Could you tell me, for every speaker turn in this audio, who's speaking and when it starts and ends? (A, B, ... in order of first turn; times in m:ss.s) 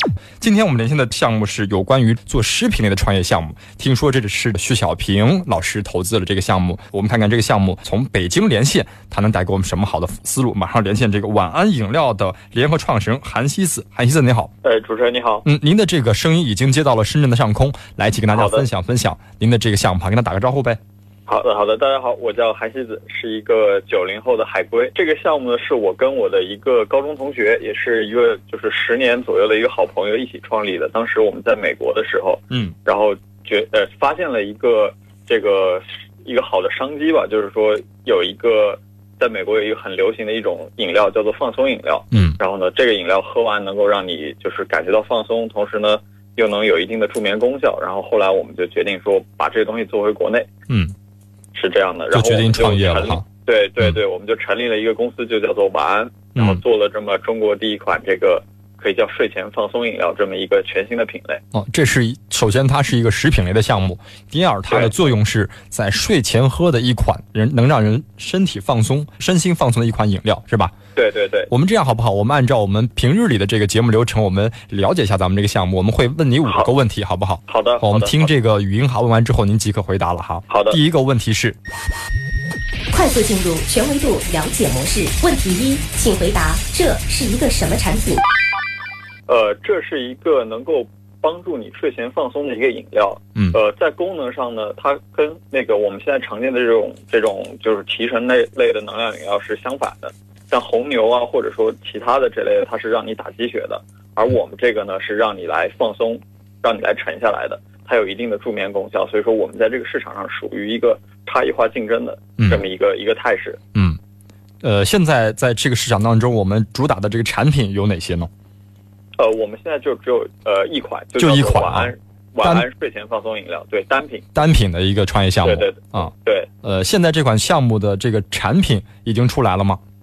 0:00.4-0:14.5 A
0:14.6-0:15.5 B
0:15.4-0:20.8 A
0:18.3-0:18.7 B
0:21.3-0:50.5 B
0:50.7-0:50.9 A
0:51.6-1:01.4 B
0:52.1-0:53.2 A
0:56.4-0:56.6 A
1:01.5-1:10.8 A
1:04.7-1:05.0 B
1:11.0-1:11.5 B
1:11.5-1:21.6 A
1:17.5-1:18.3 B
1:20.5-1:20.8 B
1:22.9-1:28.2 C
1:29.3-1:53.6 B
1:52.4-1:52.6 A
1:53.7-1:54.0 A
1:54.6-1:58.3 A
1:59.2-2:04.3 B
2:01.2-2:01.9 A
2:04.4-2:06.1 A
2:05.4-2:06.5 B
2:06.6-2:09.8 A